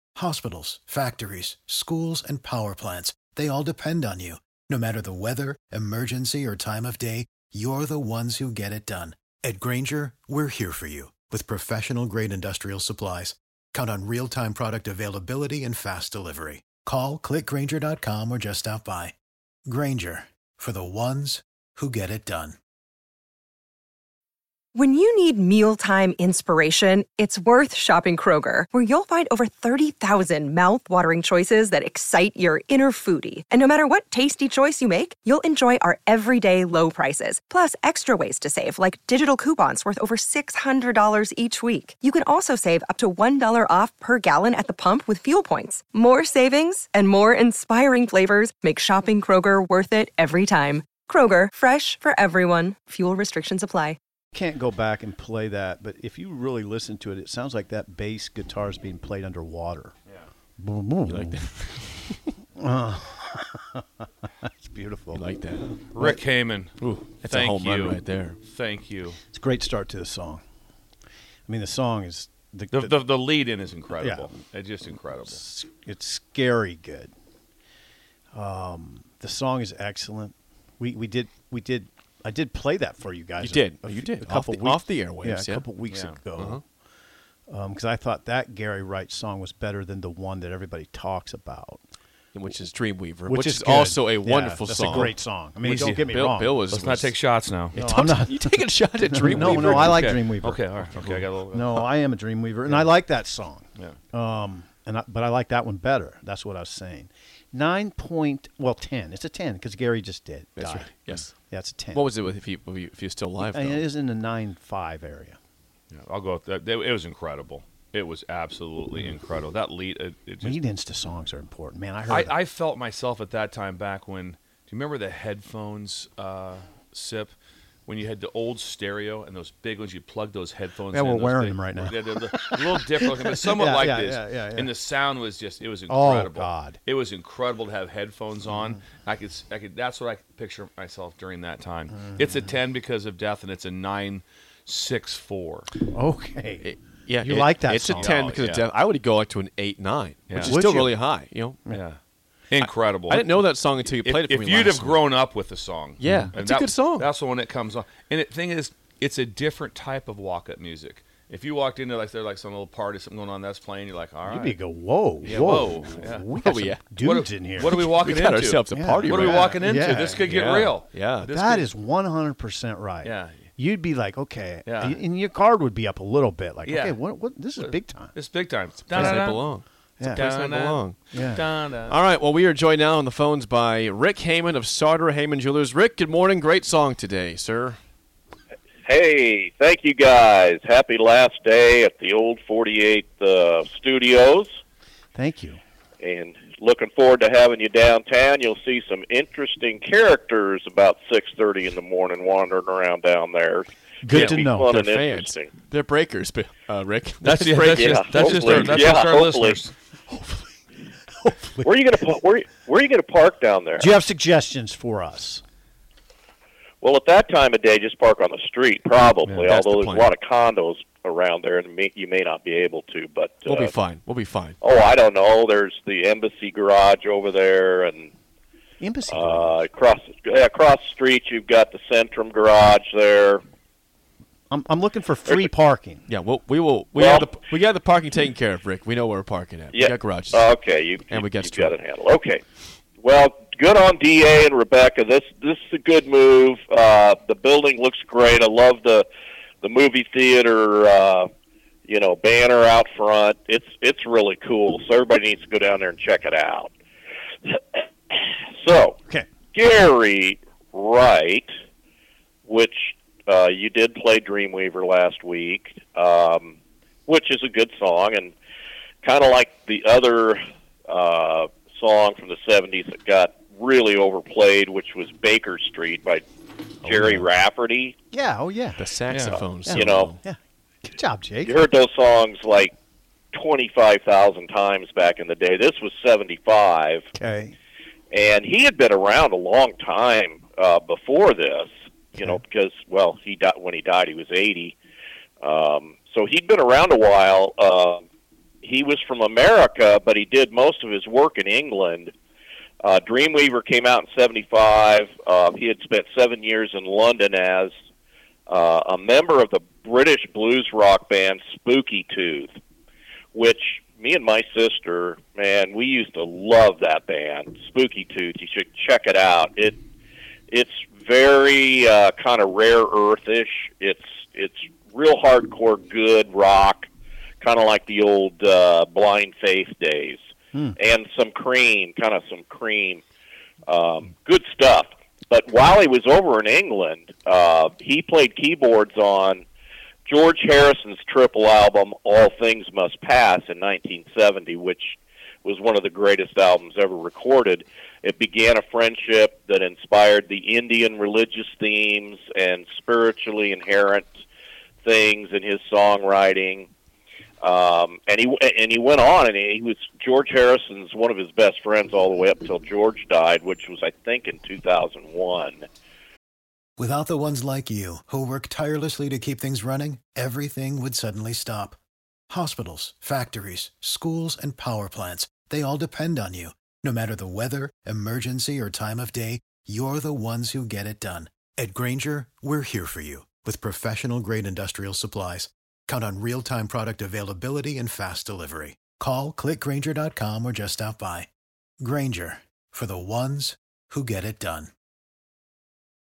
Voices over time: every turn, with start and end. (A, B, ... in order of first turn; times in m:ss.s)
0:00.2-0:19.1 A
0:19.7-0:22.6 A
0:24.7-0:54.0 B
0:54.3-0:59.9 C
1:00.6-1:01.5 C
1:01.1-1:02.1 D
1:02.6-1:03.8 C
1:04.4-1:05.2 C
1:05.1-1:05.8 D
1:05.9-1:09.2 E
1:06.8-1:08.4 D
1:09.3-1:10.4 C
1:11.5-1:12.9 C
1:12.7-1:15.4 E
1:14.0-1:14.3 C
1:15.2-1:17.1 C
1:18.3-1:26.6 C
1:23.4-1:25.7 D
1:25.8-1:26.4 E
1:26.3-1:26.6 D
1:27.5-1:31.8 C
1:32.3-1:35.2 D
1:33.3-1:36.6 C
1:35.6-1:36.1 E
1:35.9-1:37.2 D
1:36.6-1:37.8 E
1:37.7-1:40.1 D
1:37.7-1:52.1 C
1:39.3-1:41.9 E
1:42.7-1:42.9 E
1:50.6-1:51.3 D
1:51.9-1:53.8 D
1:53.4-1:55.4 C
1:55.9-2:00.6 E
2:00.4-2:02.4 C
2:02.1-2:07.3 E
2:07.8-2:25.7 E
2:10.9-2:14.7 C
2:15.9-2:16.8 C
2:25.9-2:28.2 C
2:26.6-2:31.7 D
2:28.0-2:28.7 E
2:30.3-2:30.6 E
2:30.4-2:30.9 C
2:31.7-2:32.0 E
2:32.5-2:44.6 E
2:32.6-2:35.0 D
2:36.0-2:37.1 D
2:36.0-2:36.3 C
2:44.3-2:47.9 C
2:45.2-2:46.3 E
2:46.3-2:47.0 D
2:47.0-2:51.7 E
2:47.7-2:51.3 D
2:48.7-2:50.3 C
2:51.2-2:58.2 C
2:53.0-2:53.4 E
2:54.6-2:55.0 E
2:56.6-2:57.0 E
2:57.6-2:59.5 E
2:58.9-3:01.0 D
2:58.9-2:59.3 C
3:00.0-3:00.3 C
3:00.0-3:02.0 E
3:01.1-3:01.4 C
3:01.9-3:07.8 D
3:08.8-3:14.5 F
3:15.1-3:15.6 C
3:16.0-3:25.5 F
3:24.0-3:24.7 C
3:24.1-3:24.5 E
3:24.6-3:28.8 D
3:27.2-3:29.7 E
3:27.7-3:29.6 F
3:30.1-3:30.4 C
3:31.2-3:31.7 C
3:31.6-3:33.9 F
3:33.8-3:35.4 C
3:36.8-3:43.7 F
3:39.2-3:39.6 E
3:39.5-3:40.1 D
3:43.4-3:44.6 D
3:44.6-3:48.1 F
3:48.8-3:49.5 C
3:49.1-3:53.4 F
3:54.5-3:56.0 C
3:56.1-4:00.5 D
3:57.0-3:57.3 F
3:59.7-4:02.4 F
4:01.1-4:01.8 D
4:03.0-4:09.0 F
4:09.6-4:11.3 F
4:11.9-4:16.7 F
4:17.5-4:19.0 F
4:19.5-4:21.5 F
4:22.5-4:26.5 F
4:27.1-4:28.3 F
4:29.0-4:36.2 F
4:36.8-4:37.9 F
4:36.8-4:37.2 E
4:38.1-4:38.8 C
4:38.8-4:40.2 D
4:39.1-4:39.4 E
4:39.5-4:41.6 C
4:39.7-4:40.1 F
4:41.4-4:42.7 F
4:43.3-4:47.0 F
4:47.1-4:47.6 C
4:48.1-4:54.7 F
4:55.4-4:58.0 F
4:58.6-5:02.1 F
5:02.8-5:07.7 F
5:08.5-5:12.5 F
5:13.3-5:19.8 F
5:20.5-5:26.9 F
5:27.4-5:30.2 F
5:30.8-5:33.0 F
5:33.7-5:39.4 F
5:40.1-5:54.1 F
5:54.8-5:56.7 F
5:57.4-6:05.6 F
6:06.8-6:11.8 A
6:12.3-6:31.3 A
6:31.8-6:34.7 A